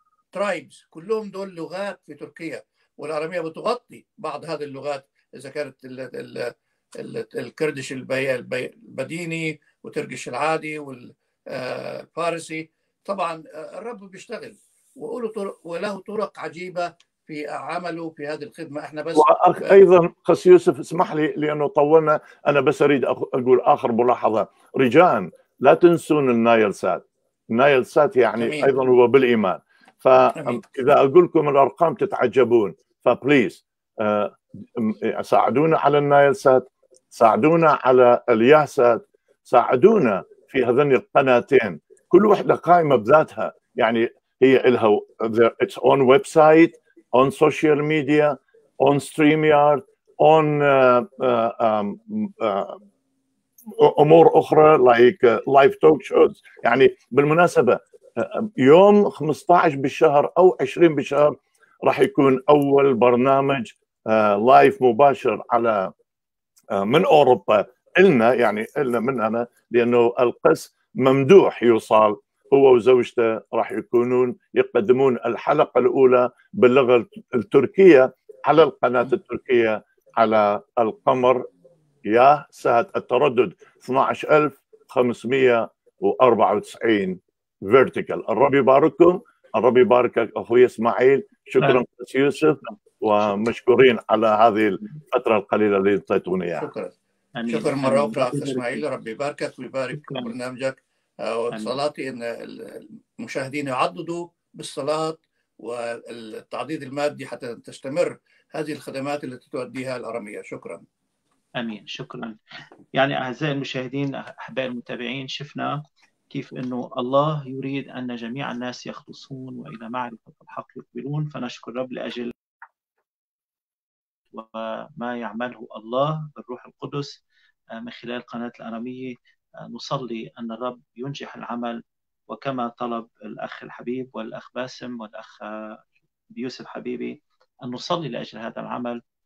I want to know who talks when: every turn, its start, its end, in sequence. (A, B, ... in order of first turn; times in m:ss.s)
0:00.3-0:19.8 A
0:19.1-0:27.0 B
0:27.5-0:52.8 B
0:28.4-0:28.7 A
0:30.4-0:30.6 A
0:53.8-1:05.9 B
1:06.7-1:21.4 B
1:22.0-1:36.7 B
1:36.6-1:36.9 A
1:37.4-1:38.8 C
1:37.5-1:50.8 A
1:39.9-1:40.3 C
1:51.6-1:52.4 C
1:52.9-2:02.3 C
2:04.3-2:07.2 C
2:07.8-2:19.0 C